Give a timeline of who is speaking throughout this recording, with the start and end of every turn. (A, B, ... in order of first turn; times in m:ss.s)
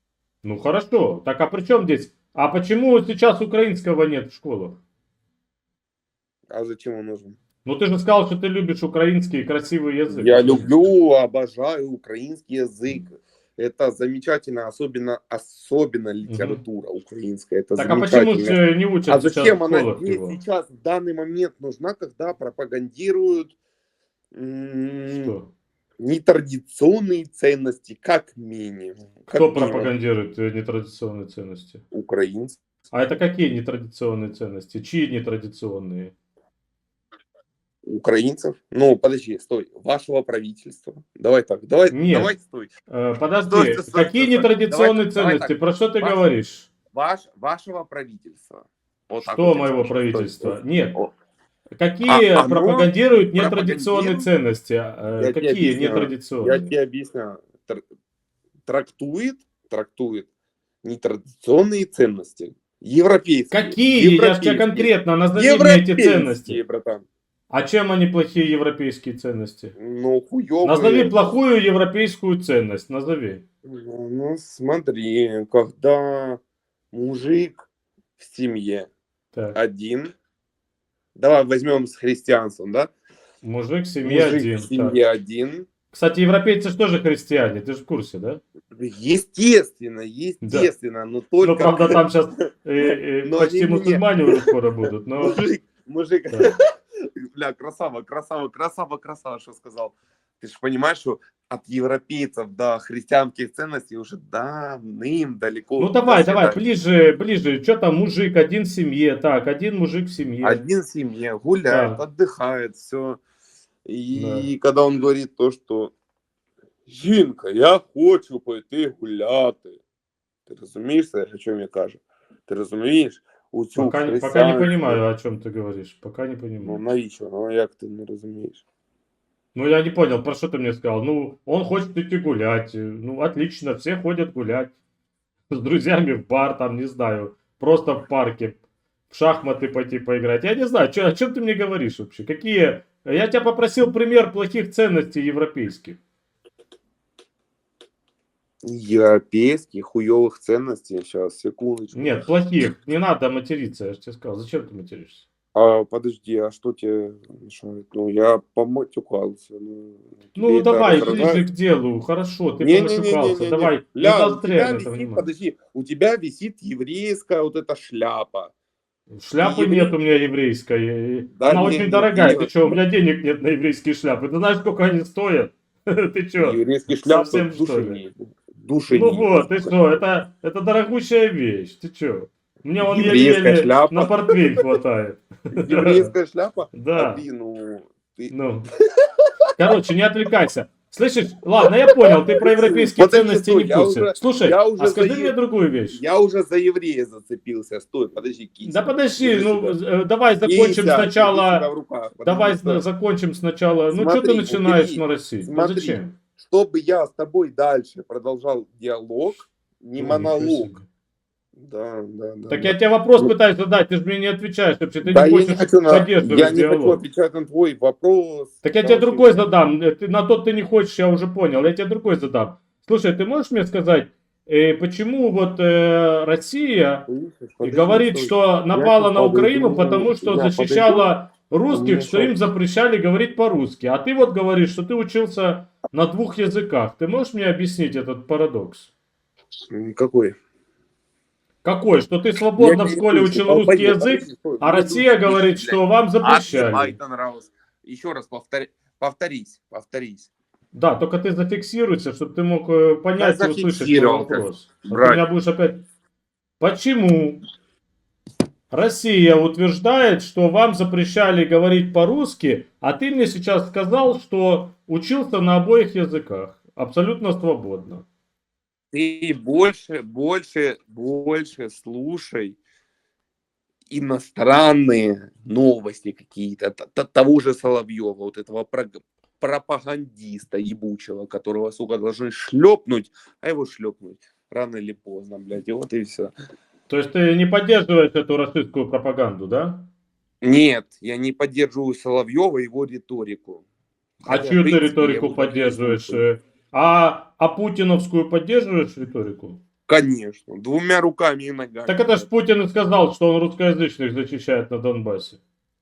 0:00.4-0:04.8 A
0:06.5-0:07.4 B
0:07.6-0:10.8 A
0:10.1-0:23.5 B
0:16.3-0:16.6 A
0:17.8-0:20.4 A
0:24.3-0:25.3 B
0:25.1-0:25.5 A
0:26.0-0:29.9 B
0:29.3-0:31.8 A
0:31.9-0:32.6 B
0:32.9-0:36.1 A
0:37.8-0:42.7 B
0:41.9-0:42.3 A
0:42.9-0:46.7 A
0:43.5-0:46.3 B
0:46.9-0:51.1 B
0:49.2-0:50.9 A
0:51.8-0:56.7 A
0:52.1-0:54.2 B
0:55.2-0:57.8 B
0:58.6-1:00.3 B
1:00.8-1:07.0 B
1:03.5-1:06.6 A
1:07.5-1:09.7 A
1:09.8-1:11.1 B
1:10.6-1:13.4 A
1:13.6-1:16.4 B
1:16.9-1:17.6 B
1:18.2-1:18.9 B
1:19.5-1:20.1 B
1:21.1-1:22.9 B
1:23.4-1:25.0 A
1:24.0-1:25.7 B
1:25.9-1:28.4 A
1:28.7-1:32.0 B
1:30.4-1:30.7 A
1:31.4-1:35.4 A
1:32.8-1:34.4 B
1:35.2-1:36.6 B
1:36.3-1:36.6 A
1:37.2-1:46.6 B
1:45.8-1:50.6 A
1:50.4-1:53.2 B
1:51.7-1:52.0 A
1:53.8-1:55.9 B
1:54.1-1:54.5 A
1:56.9-1:59.8 B
2:00.5-2:05.0 B
2:03.8-2:06.8 A
2:06.6-2:08.6 B
2:09.5-2:14.7 A
2:15.5-2:18.6 A
2:19.1-2:26.0 A
2:28.6-2:32.3 B
2:31.9-2:35.2 A
2:35.5-2:41.4 B
2:40.4-2:45.2 A
2:42.6-2:48.5 B
2:49.1-2:58.0 A
2:49.4-2:50.0 B
2:51.4-2:52.8 B
2:56.4-2:59.8 B
2:58.9-3:06.1 A
3:02.8-3:04.6 B
3:05.6-3:08.3 B
3:06.7-3:07.2 A
3:08.3-3:08.7 A
3:09.6-3:16.0 A
3:12.4-3:15.3 B
3:15.9-3:19.8 B
3:18.6-3:21.7 A
3:20.4-3:22.8 B
3:22.2-3:26.2 A
3:23.9-3:30.7 B
3:30.0-3:30.8 A
3:31.6-3:33.3 B
3:32.5-3:37.0 A
3:35.0-3:39.5 B
3:38.6-3:47.1 A
3:47.1-3:51.1 B
3:47.6-3:58.9 A
3:51.7-3:52.3 B
3:59.7-4:00.4 B
4:01.6-4:07.0 A
4:02.6-4:10.3 B
4:10.7-4:15.8 A
4:13.2-4:15.2 B
4:16.6-4:17.4 A
4:18.7-4:28.0 A
4:28.9-4:32.6 B
4:33.9-4:46.3 B
4:46.9-4:49.9 A
4:50.4-4:53.6 B
4:54.2-4:56.2 B
4:54.3-4:59.6 A
4:59.9-5:02.3 B
5:01.9-5:05.4 A